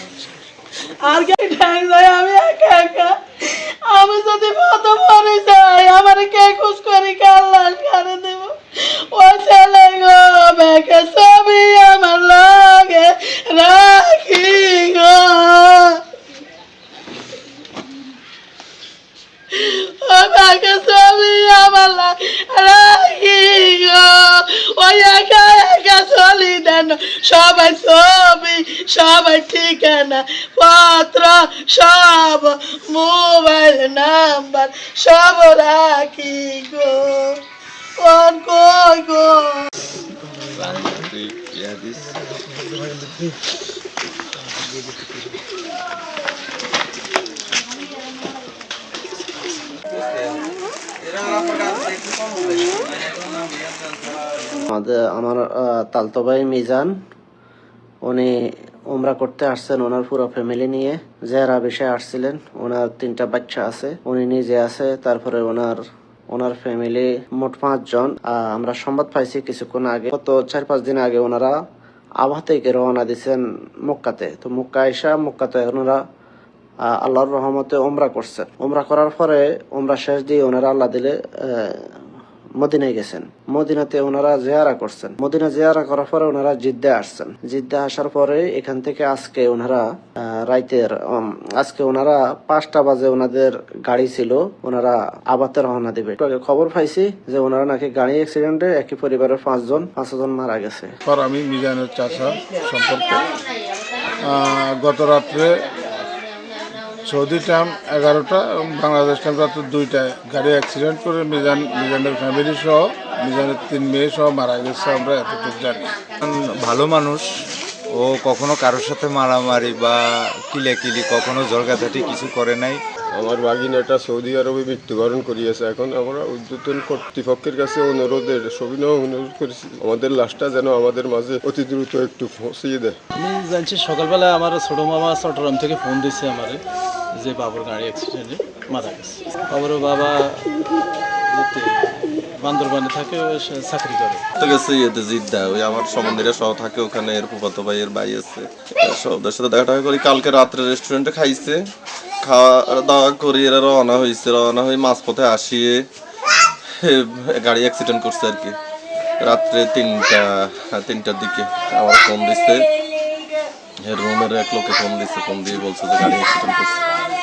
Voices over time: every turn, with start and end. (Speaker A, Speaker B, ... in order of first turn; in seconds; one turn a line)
Speaker A: 1.0-16.0
Speaker A: 19.5-37.4
Speaker A: 38.0-39.7
Speaker B: 40.7-42.1
Speaker B: 51.5-51.8
Speaker C: 54.7-56.9
Speaker C: 58.0-58.3
Speaker C: 58.9-65.8
Speaker C: 66.3-71.5
Speaker C: 72.2-76.0
Speaker C: 76.9-81.9
Speaker C: 82.6-100.9
Speaker D: 101.0-103.3
Speaker D: 104.2-105.7
Speaker D: 107.0-115.9
Speaker E: 116.2-117.3
Speaker E: 117.9-122.8
Speaker F: 123.1-132.9
Speaker G: 133.2-136.6
Speaker G: 137.1-140.5
Speaker G: 141.3-144.2
Speaker B: 144.4-151.6
Speaker B: 152.2-155.9
Speaker B: 156.8-158.6
Speaker B: 159.2-162.7
Speaker B: 163.8-166.8